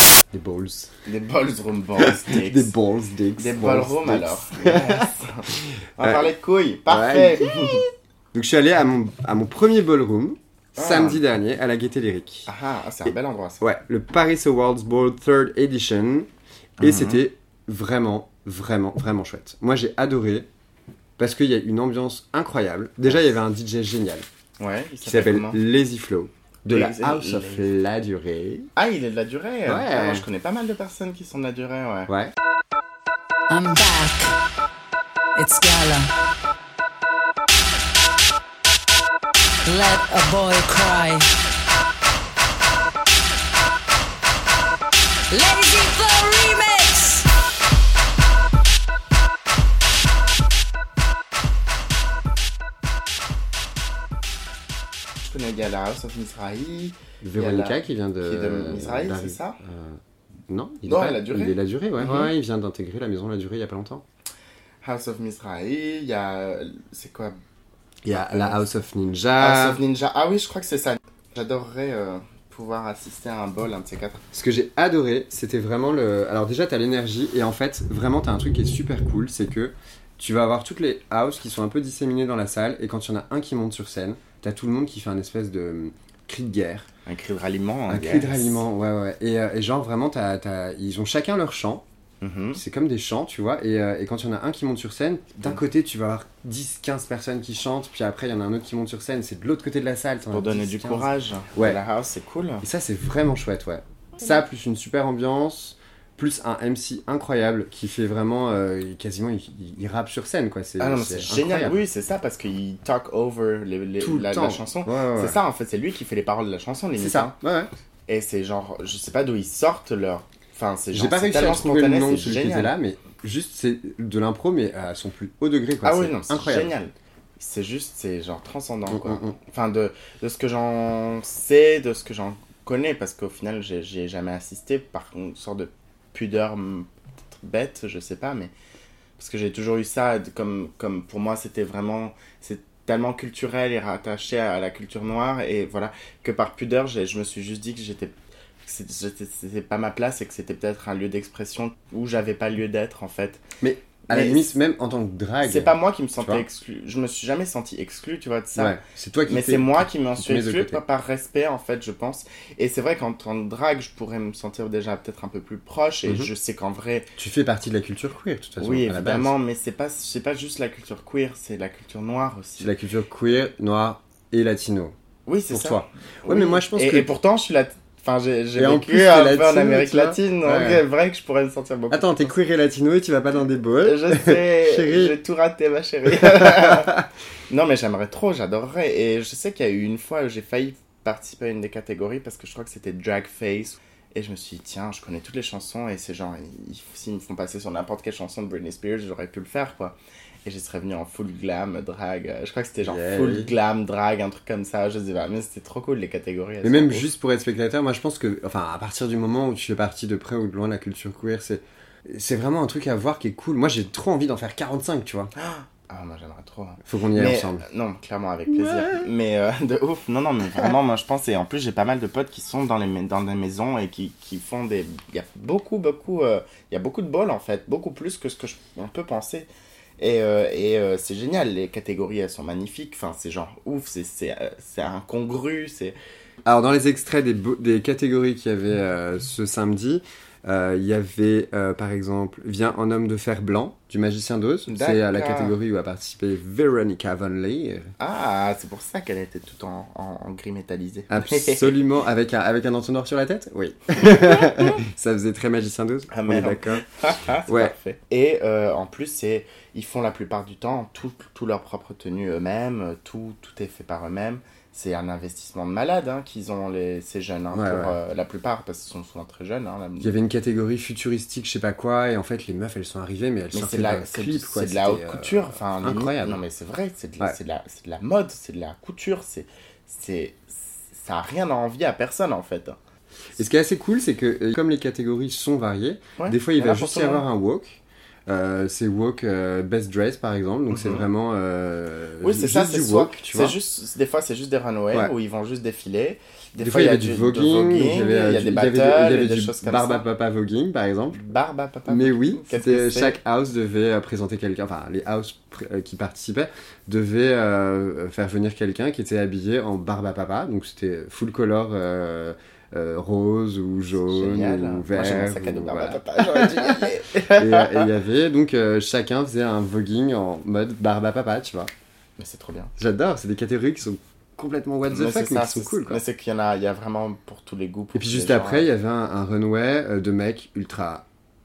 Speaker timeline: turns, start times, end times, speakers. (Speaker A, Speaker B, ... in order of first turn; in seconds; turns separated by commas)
Speaker A: 0.3-0.9, Speaker B: 1.1-2.7, Speaker A: 2.0-6.3, Speaker B: 3.4-7.8, Speaker A: 6.9-12.5, Speaker B: 10.8-11.2, Speaker B: 12.4-13.7, Speaker A: 13.6-16.3, Speaker B: 16.8-17.2, Speaker A: 16.8-20.5, Speaker A: 21.2-24.2, Speaker B: 24.6-25.6, Speaker A: 25.0-28.7, Speaker B: 26.7-27.7, Speaker B: 28.8-32.1, Speaker A: 29.7-30.2, Speaker A: 32.1-32.3, Speaker C: 33.5-34.4, Speaker C: 35.4-36.1, Speaker C: 39.6-41.3, Speaker C: 45.3-47.3, Speaker B: 55.2-59.6, Speaker A: 57.2-64.0, Speaker B: 60.8-62.3, Speaker B: 64.8-67.4, Speaker A: 68.0-69.8, Speaker B: 68.1-68.7, Speaker B: 69.4-74.2, Speaker A: 74.3-86.9, Speaker B: 87.0-88.6, Speaker A: 87.9-91.8, Speaker B: 92.2-92.6, Speaker A: 92.5-101.8, Speaker B: 100.3-102.7, Speaker A: 102.6-111.8, Speaker B: 110.8-117.4, Speaker A: 114.0-115.4, Speaker A: 117.0-117.7, Speaker B: 118.1-122.7, Speaker A: 120.9-126.7, Speaker B: 125.8-138.5, Speaker A: 128.9-129.3, Speaker B: 139.2-153.4, Speaker A: 153.6-156.4, Speaker B: 154.1-154.5, Speaker B: 155.4-167.1, Speaker A: 158.5-160.8, Speaker A: 167.2-169.3, Speaker B: 168.6-172.7, Speaker A: 172.6-174.9, Speaker B: 175.2-182.3, Speaker A: 175.5-177.1, Speaker A: 178.6-180.8, Speaker A: 181.9-185.2, Speaker B: 183.8-207.1, Speaker A: 186.2-187.1, Speaker A: 202.8-203.5, Speaker A: 206.6-215.3, Speaker B: 215.3-235.9, Speaker A: 216.8-217.6, Speaker A: 218.6-219.0, Speaker A: 236.4-247.9, Speaker B: 244.7-245.5, Speaker B: 248.0-251.8, Speaker A: 251.1-256.8, Speaker B: 256.1-270.1, Speaker A: 257.5-257.7, Speaker A: 267.5-268.0, Speaker A: 270.0-276.4, Speaker B: 273.5-282.8, Speaker A: 283.4-293.6, Speaker B: 286.2-287.2, Speaker B: 290.7-291.1, Speaker B: 292.2-300.0, Speaker A: 296.6-301.2, Speaker B: 301.1-303.2, Speaker A: 301.9-321.7, Speaker B: 314.1-317.9, Speaker B: 322.2-322.7, Speaker A: 322.8-326.0, Speaker B: 324.9-328.7, Speaker A: 327.9-331.0